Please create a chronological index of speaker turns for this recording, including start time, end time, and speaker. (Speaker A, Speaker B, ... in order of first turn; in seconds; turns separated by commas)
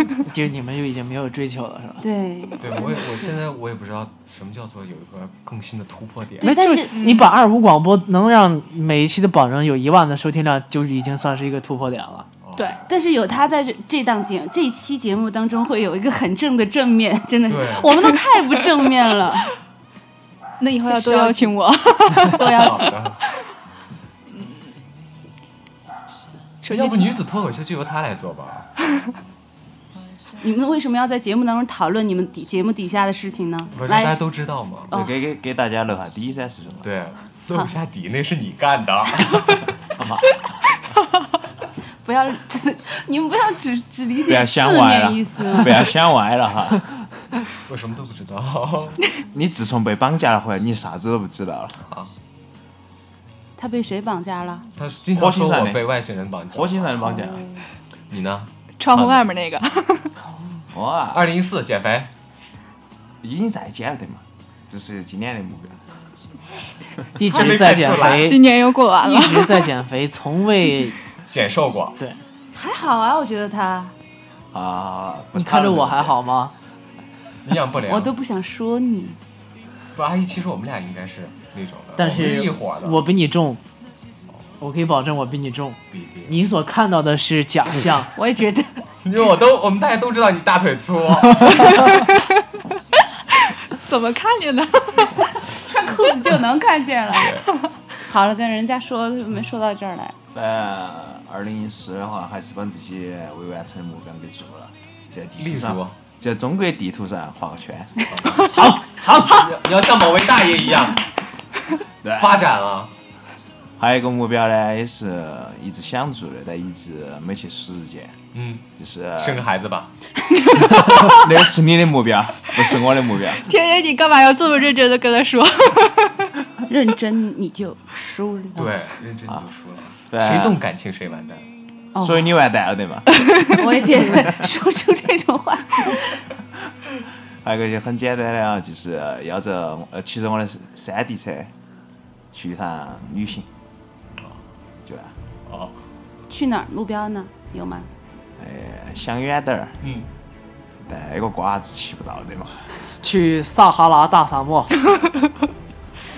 Speaker A: 0.2-2.0, Speaker B: 2.0-3.4, Speaker C: 2.6-6.5, Speaker B: 6.4-7.1, Speaker A: 6.4-12.3, Speaker D: 6.9-7.3, Speaker C: 12.4-12.8, Speaker B: 12.9-19.5, Speaker C: 17.4-18.0, Speaker D: 20.6-22.9, Speaker B: 20.8-21.5, Speaker B: 22.2-23.0, Speaker C: 22.5-23.2, Speaker D: 26.6-27.2, Speaker C: 26.7-28.7, Speaker B: 30.4-34.2, Speaker C: 33.7-34.9, Speaker E: 34.9-36.9, Speaker C: 36.8-39.6, Speaker E: 40.0-40.2, Speaker B: 42.0-45.9, Speaker E: 44.2-46.9, Speaker C: 47.7-49.0, Speaker E: 49.3-51.8, Speaker C: 51.9-52.1, Speaker B: 53.6-54.6, Speaker C: 54.8-57.0, Speaker E: 55.1-55.9, Speaker E: 56.5-57.5, Speaker B: 57.0-57.6, Speaker C: 58.1-59.3, Speaker D: 58.8-60.1, Speaker E: 60.7-61.2, Speaker C: 61.1-62.1, Speaker E: 63.2-65.9, Speaker A: 67.2-68.4, Speaker C: 67.2-68.4, Speaker D: 68.2-69.7, Speaker A: 69.0-71.0, Speaker C: 71.3-72.0, Speaker B: 72.5-73.9, Speaker E: 74.5-76.2, Speaker A: 75.3-76.5, Speaker C: 77.4-78.1, Speaker B: 77.8-79.2, Speaker C: 79.9-83.0, Speaker A: 82.0-83.6, Speaker A: 84.6-88.1, Speaker C: 85.9-86.3, Speaker B: 88.0-88.8, Speaker C: 89.0-91.6, Speaker D: 91.9-92.2, Speaker D: 93.8-95.1, Speaker B: 95.6-97.5, Speaker B: 98.1-100.2, Speaker E: 100.3-107.9, Speaker C: 105.4-106.0, Speaker C: 108.1-108.4, Speaker A: 108.5-109.5, Speaker C: 109.2-111.0, Speaker E: 112.0-112.4, Speaker C: 112.1-112.9, Speaker E: 113.8-118.2, Speaker C: 118.3-118.6, Speaker E: 118.8-119.4, Speaker C: 119.2-119.9, Speaker E: 120.6-123.4, Speaker D: 123.5-126.1, Speaker B: 126.7-128.7, Speaker C: 128.6-131.4, Speaker E: 130.1-130.6, Speaker B: 131.9-132.3, Speaker E: 132.0-133.3, Speaker B: 133.5-136.3, Speaker E: 137.4-141.5, Speaker E: 142.3-143.5, Speaker E: 144.8-145.1, Speaker C: 145.5-145.8, Speaker B: 146.3-147.9, Speaker E: 148.4-149.8, Speaker C: 149.8-150.1, Speaker E: 150.8-152.7, Speaker A: 152.8-154.8